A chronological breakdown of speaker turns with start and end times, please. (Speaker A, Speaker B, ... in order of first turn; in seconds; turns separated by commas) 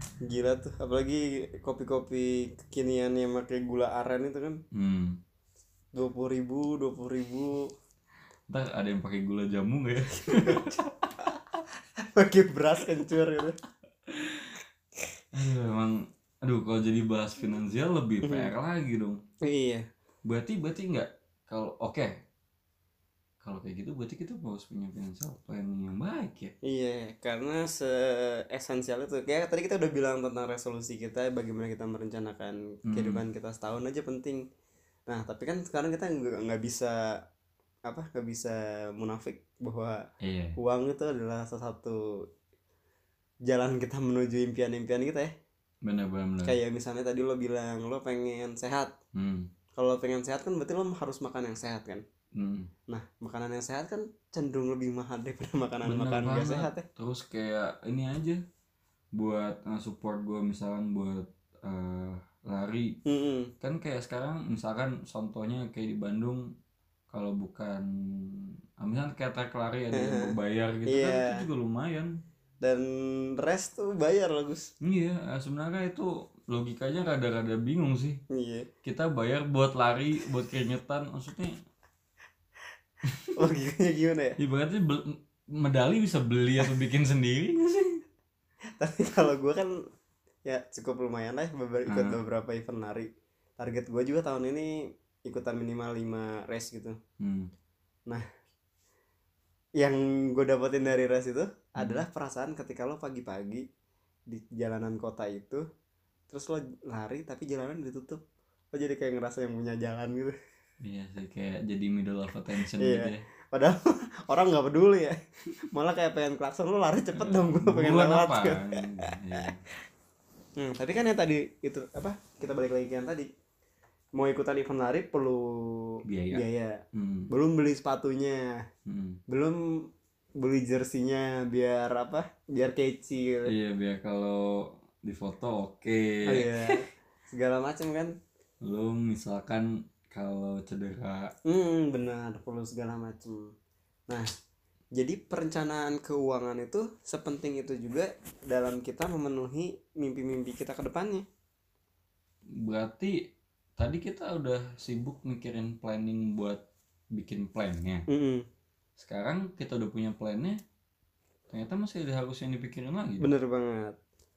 Speaker A: 0.2-4.6, Speaker B: 4.7-5.2, Speaker A: 5.9-7.7, Speaker B: 8.5-11.4, Speaker A: 10.3-10.7, Speaker A: 12.0-13.6, Speaker B: 14.1-14.6, Speaker B: 15.3-19.2, Speaker A: 18.2-18.5, Speaker A: 19.4-19.9, Speaker B: 20.2-22.2, Speaker B: 23.4-26.5, Speaker A: 26.6-34.4, Speaker B: 32.9-33.2, Speaker A: 35.1-37.0, Speaker A: 37.9-40.0, Speaker B: 40.2-40.6, Speaker A: 40.6-42.0, Speaker A: 43.5-45.3, Speaker B: 45.8-46.6, Speaker A: 46.4-48.9, Speaker B: 49.1-49.5, Speaker A: 49.8-52.0, Speaker B: 52.3-52.7, Speaker A: 52.9-56.8, Speaker B: 55.8-58.4, Speaker B: 59.1-63.0, Speaker A: 63.0-63.5, Speaker B: 63.6-66.5, Speaker B: 67.1-72.2, Speaker A: 69.9-71.5, Speaker A: 72.6-74.7, Speaker B: 74.8-78.2, Speaker A: 78.3-78.7, Speaker B: 78.8-81.5, Speaker B: 83.0-83.3, Speaker A: 83.3-84.4, Speaker B: 84.4-88.0, Speaker A: 88.8-89.8, Speaker A: 90.5-97.0, Speaker B: 91.9-92.2, Speaker B: 97.2-97.5, Speaker A: 99.8-103.7, Speaker B: 101.8-102.0, Speaker A: 104.3-105.6, Speaker A: 106.3-108.2, Speaker A: 108.7-110.3, Speaker B: 110.8-113.3, Speaker A: 112.7-115.2, Speaker A: 115.7-119.4, Speaker B: 117.1-119.6, Speaker A: 120.6-123.3, Speaker A: 124.1-128.6, Speaker B: 126.0-127.3, Speaker B: 128.8-129.2, Speaker A: 129.3-129.9, Speaker A: 130.4-133.5, Speaker B: 133.4-136.8, Speaker A: 136.2-138.1, Speaker B: 138.6-141.3, Speaker A: 141.5-143.5, Speaker A: 144.9-151.2, Speaker B: 152.5-156.6, Speaker B: 157.1-158.1, Speaker A: 158.1-158.4, Speaker B: 159.0-160.6, Speaker B: 161.5-163.3, Speaker A: 163.2-164.0